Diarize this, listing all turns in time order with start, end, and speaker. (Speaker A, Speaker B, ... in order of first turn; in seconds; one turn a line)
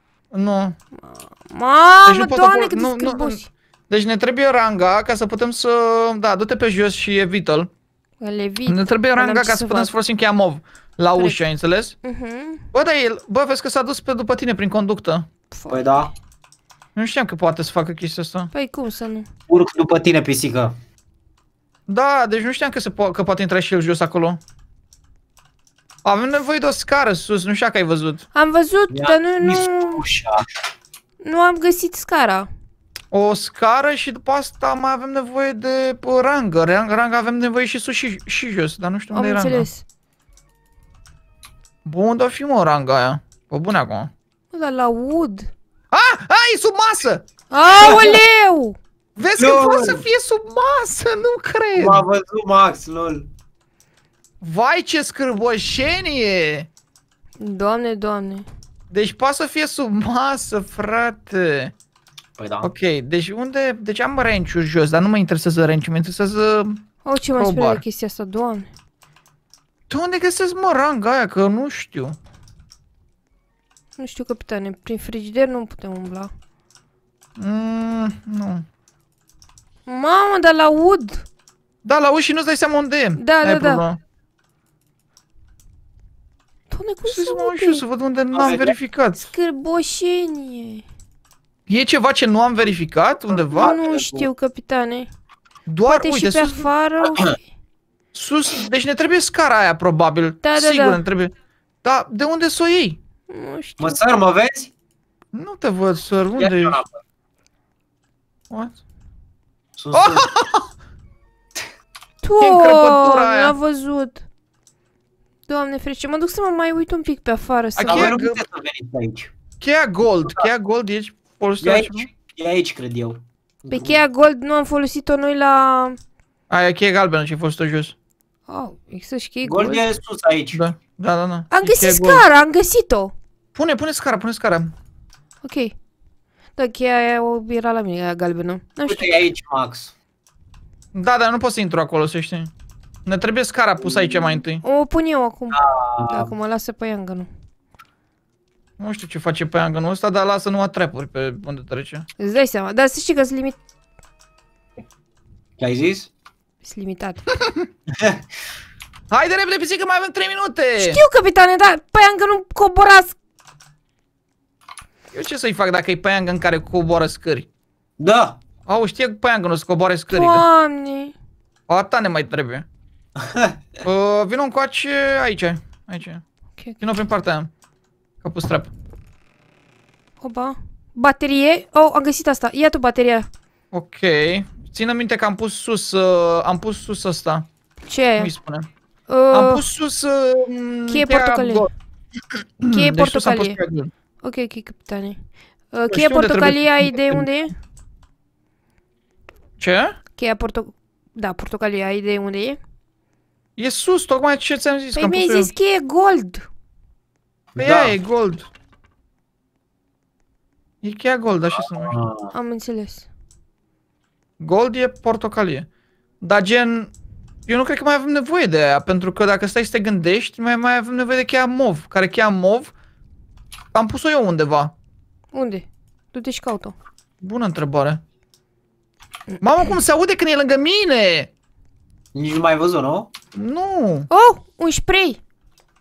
Speaker A: 0.3-0.8
Speaker B: 1.1-3.5
Speaker A: 2.0-7.7
Speaker B: 8.2-9.9
Speaker A: 8.7-12.0
Speaker B: 11.2-11.4
Speaker B: 12.0-12.7
Speaker A: 12.7-15.3
Speaker B: 15.5-16.1
Speaker C: 15.7-16.1
Speaker A: 17.0-18.5
Speaker B: 18.5-19.3
Speaker C: 19.5-20.7
Speaker A: 21.9-24.4
Speaker A: 26.1-28.2
Speaker B: 28.3-30.1
Speaker C: 28.9-30.5
Speaker B: 31.2-32.5
Speaker A: 33.1-39.7
Speaker B: 39.1-39.8
Speaker A: 41.9-44.1
Speaker B: 44.5-45.5
Speaker A: 45.9-47.3
Speaker B: 47.5-48.8
Speaker A: 47.8-48.2
Speaker C: 47.8-48.1
Speaker A: 49.2-52.1
Speaker C: 49.4-50.0
Speaker C: 51.8-53.3
Speaker A: 54.4-56.7
Speaker B: 57.4-58.5
Speaker A: 58.9-61.7
Speaker C: 62.4-62.7
Speaker A: 62.6-66.8
Speaker B: 67.0-68.7
Speaker A: 67.4-67.8
Speaker A: 69.9-72.2
Speaker B: 74.0-76.3
Speaker A: 77.4-78.6
Speaker B: 79.9-81.2
Speaker A: 81.8-84.0
Speaker B: 83.2-83.8
Speaker B: 86.7-87.8
Speaker A: 87.1-89.3
Speaker C: 88.3-88.8
Speaker B: 89.2-90.8
Speaker A: 91.7-93.8
Speaker C: 93.3-94.3
Speaker B: 93.6-95.1
Speaker A: 95.7-96.7
Speaker B: 95.9-97.4
Speaker A: 98.1-101.3
Speaker B: 100.4-101.0
Speaker A: 101.8-103.0
Speaker B: 103.3-104.0
Speaker C: 103.8-104.7
Speaker A: 105.3-106.8
Speaker C: 106.4-106.9
Speaker A: 108.5-108.8
Speaker C: 109.8-110.3
Speaker A: 109.9-110.7
Speaker B: 112.2-114.2
Speaker A: 112.4-113.6
Speaker B: 115.5-118.2
Speaker A: 117.8-118.4
Speaker C: 117.9-119.3
Speaker A: 119.6-122.1
Speaker C: 121.6-124.0
Speaker B: 123.7-126.0
Speaker A: 126.5-128.0
Speaker B: 128.5-129.9
Speaker C: 129.4-130.6
Speaker A: 130.5-132.2
Speaker B: 131.5-133.1
Speaker A: 133.6-134.7
Speaker B: 135.4-135.8
Speaker B: 136.6-139.2
Speaker C: 138.9-139.9
Speaker A: 140.9-142.5
Speaker A: 143.1-144.6
Speaker B: 144.2-147.3
Speaker C: 145.5-146.3
Speaker A: 148.8-152.1
Speaker B: 152.2-153.6
Speaker C: 155.6-156.1
Speaker B: 156.6-157.2
Speaker A: 159.1-161.0
Speaker B: 160.8-163.2
Speaker A: 165.1-167.5
Speaker C: 168.0-168.4
Speaker A: 168.7-170.4
Speaker B: 170.1-171.1
Speaker A: 171.7-172.7
Speaker A: 173.8-176.2
Speaker A: 176.8-177.5
Speaker A: 178.2-178.7
Speaker B: 180.2-183.3
Speaker A: 183.7-187.5
Speaker B: 187.9-188.3
Speaker A: 188.2-188.7
Speaker B: 189.1-189.7
Speaker A: 189.3-191.7
Speaker B: 190.9-191.7
Speaker A: 192.6-193.9
Speaker B: 192.7-193.6
Speaker B: 194.2-195.2
Speaker B: 195.7-197.5
Speaker A: 195.9-197.3
Speaker A: 199.6-200.0
Speaker B: 200.2-202.6
Speaker A: 203.6-205.5
Speaker B: 205.0-206.5
Speaker C: 207.6-208.0
Speaker A: 207.6-208.5
Speaker A: 210.8-212.0
Speaker C: 211.7-212.3
Speaker B: 212.3-213.1
Speaker A: 214.4-215.7
Speaker A: 216.2-216.9
Speaker A: 217.5-222.7
Speaker A: 223.7-224.7
Speaker B: 225.3-226.7
Speaker A: 227.2-228.0
Speaker B: 229.3-229.7
Speaker A: 229.4-231.3
Speaker C: 232.2-233.1
Speaker A: 233.3-234.1
Speaker B: 234.1-235.2